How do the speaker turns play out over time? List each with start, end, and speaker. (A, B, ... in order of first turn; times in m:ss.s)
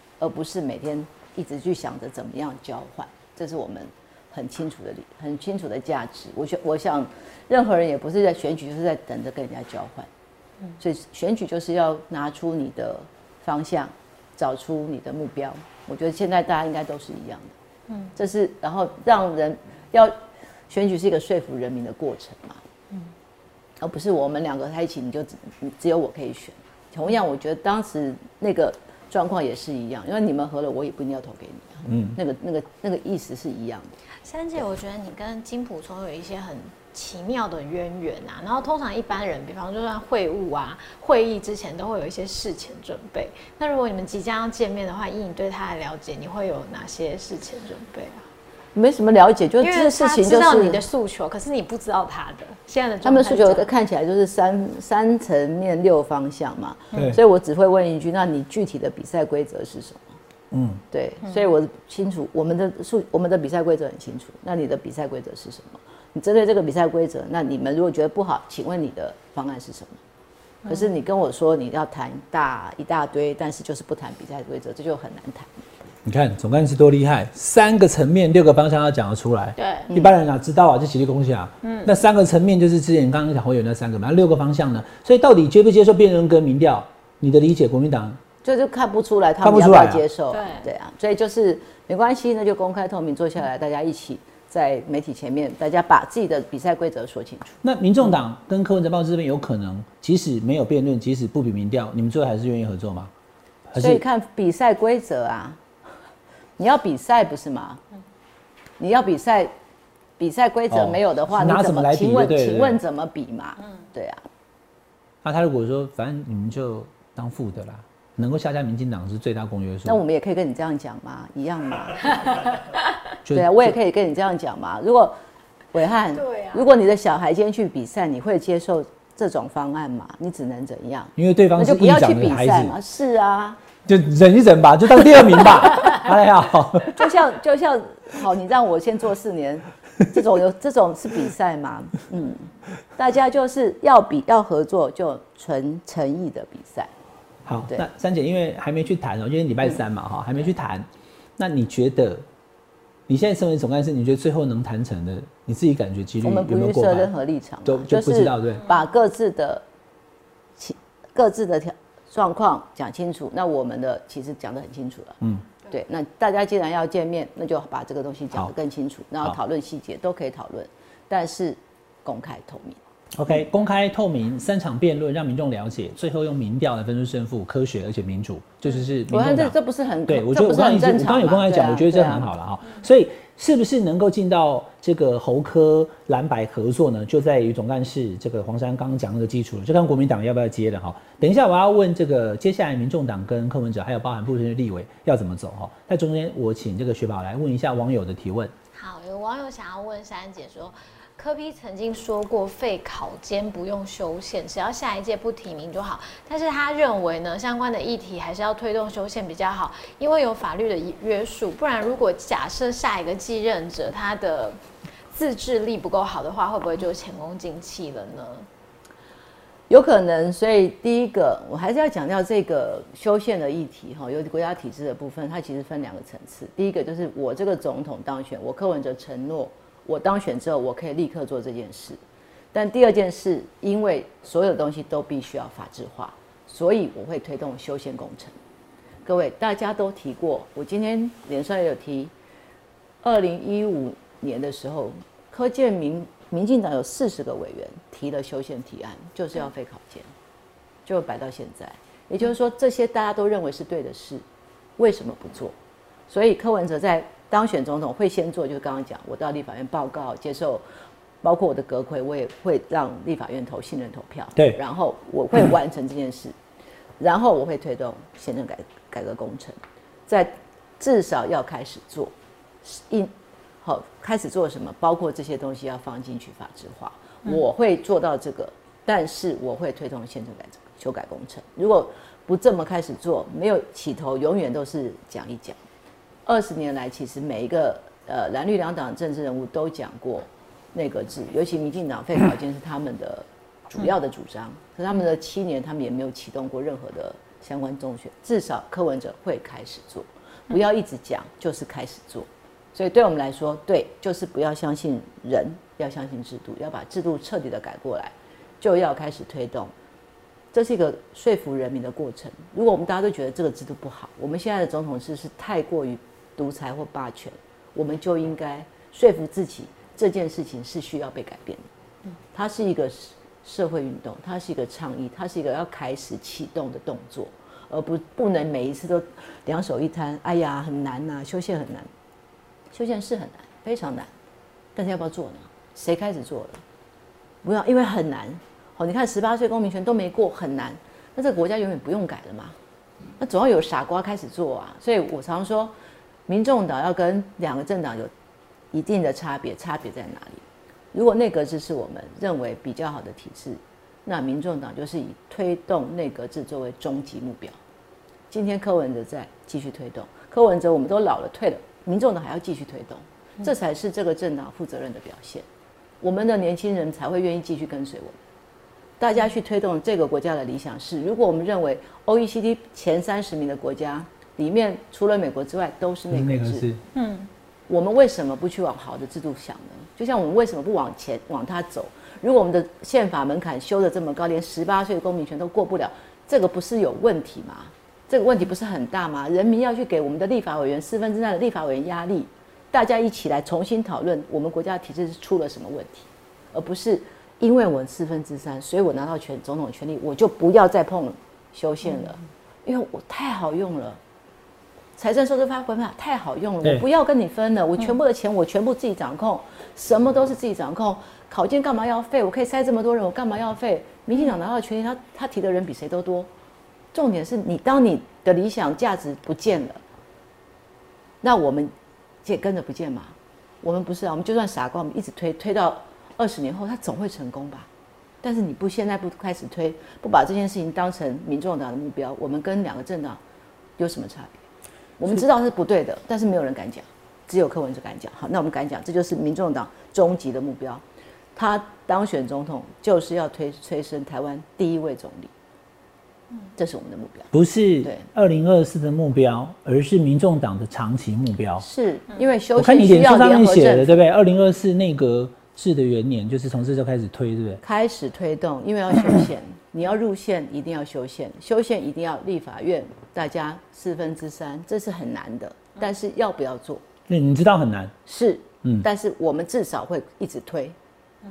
0:00.2-0:10.1 A
0:10.8-0:17.5 A
0:18.2-0:20.2 A
0:20.7-0:22.6 A
0:23.8-0:33.9 A
0:31.9-0:32.2 B
0:34.2-0:48.3 C
0:48.8-0:50.8 A
0:49.6-0:53.7 C
0:53.0-1:00.1 A
0:56.9-0:57.2 B
1:00.5-1:00.8 B
1:00.9-1:10.0 A
1:10.6-1:10.9 C
1:10.7-1:15.7 A
1:16.0-1:28.2 B
1:19.6-1:19.9 C
1:19.9-1:20.1 A
1:21.6-1:21.9 C
1:28.4-1:37.6 A
1:29.4-1:30.0 B
1:30.3-1:30.7 C
1:37.6-1:43.1 B
1:43.7-1:44.0 B
1:43.8-1:45.6 A
1:46.6-1:47.8 A
1:48.8-1:49.5 A
1:50.2-1:54.2 A
1:50.7-1:52.8 B
1:55.2-2:00.0 B
1:59.8-2:02.4 A
2:03.2-2:03.8 B
2:03.3-2:05.2 A
2:05.7-2:13.6 A
2:06.2-2:06.6 C
2:11.2-2:12.8 B
2:13.9-2:17.1 B
2:16.9-2:26.9 A
2:27.4-2:32.2 B
2:33.1-2:37.1 B
2:36.2-2:39.6 A
2:37.6-2:38.7 B
2:40.6-2:52.8 A
2:45.2-2:45.5 B
2:53.2-2:59.6 B
2:59.1-3:02.3 A
3:00.1-3:18.5 B
3:18.7-3:38.5 C
3:39.7-3:52.0 A
3:52.5-3:58.4 A
3:59.0-4:02.1 A
4:03.0-4:10.1 A
4:10.9-4:14.2 A
4:14.8-4:15.6 A
4:16.1-4:20.6 A
4:21.2-4:26.4 A
4:27.0-4:33.1 A
4:33.6-4:45.6 A
4:46.3-5:09.7 A
5:10.5-5:21.6 A
5:22.3-5:31.9 A
5:32.7-5:34.1 A
5:34.8-5:36.6 A
5:37.4-5:42.6 A
5:43.2-5:45.7 A
5:46.3-5:48.1 A
5:48.7-5:57.6 A
5:58.3-6:05.5 A
6:06.0-6:08.2 A
6:09.0-6:16.7 A
6:16.1-6:16.8 B
6:16.9-6:17.3 C
6:17.7-6:44.0 A
6:45.0-6:56.3 A
6:56.9-6:59.8 A
7:01.2-7:01.7 A
7:02.2-7:07.7 A
7:08.2-7:13.2 A
7:13.8-7:14.4 A
7:15.0-7:20.8 A
7:21.4-7:25.3 A
7:26.6-7:27.3 A
7:27.3-7:31.7 B
7:31.6-7:34.0 A
7:32.6-7:37.6 B
7:37.6-7:46.8 A
7:47.1-7:48.0 B
7:48.1-7:50.8 A